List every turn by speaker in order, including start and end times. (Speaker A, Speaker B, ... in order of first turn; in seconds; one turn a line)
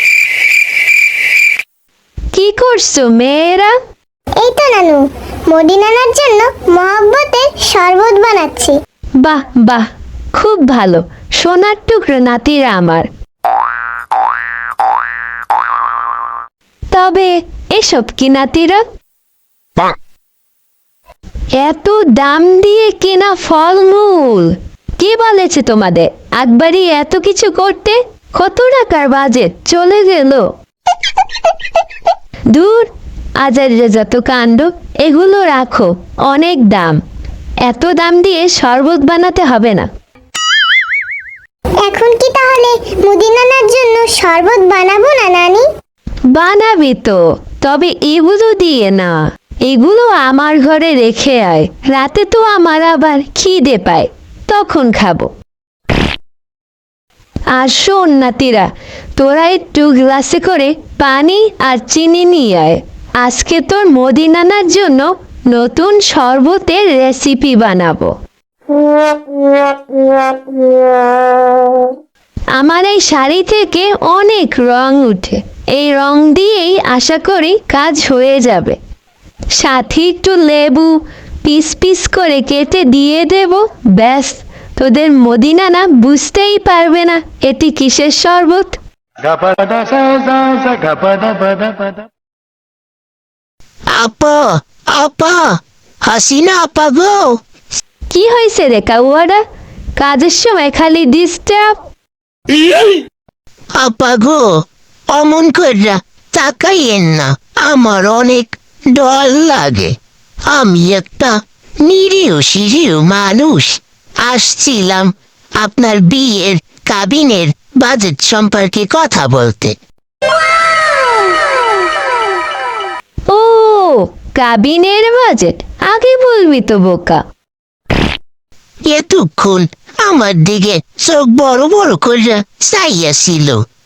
Speaker A: 2.3-3.7
Speaker B: 4.3-8.8
Speaker A: 9.2-13.1
Speaker A: 16.9-18.8
Speaker A: 21.6-30.5
Speaker A: 32.5-32.9
Speaker A: 33.4-37.0
Speaker A: 37.6-39.9
Speaker B: 41.8-45.6
Speaker A: 46.3-55.3
Speaker A: 57.5-68.1
Speaker A: 72.5-78.8
Speaker A: 79.5-88.8
Speaker C: 94.0-95.4
Speaker C: 96.0-97.3
Speaker A: 98.1-99.4
Speaker A: 100.0-101.8
Speaker C: 103.8-104.5
Speaker C: 105.1-109.9
Speaker C: 110.5-119.8
Speaker A: 123.3-127.2
Speaker C: 128.9-133.6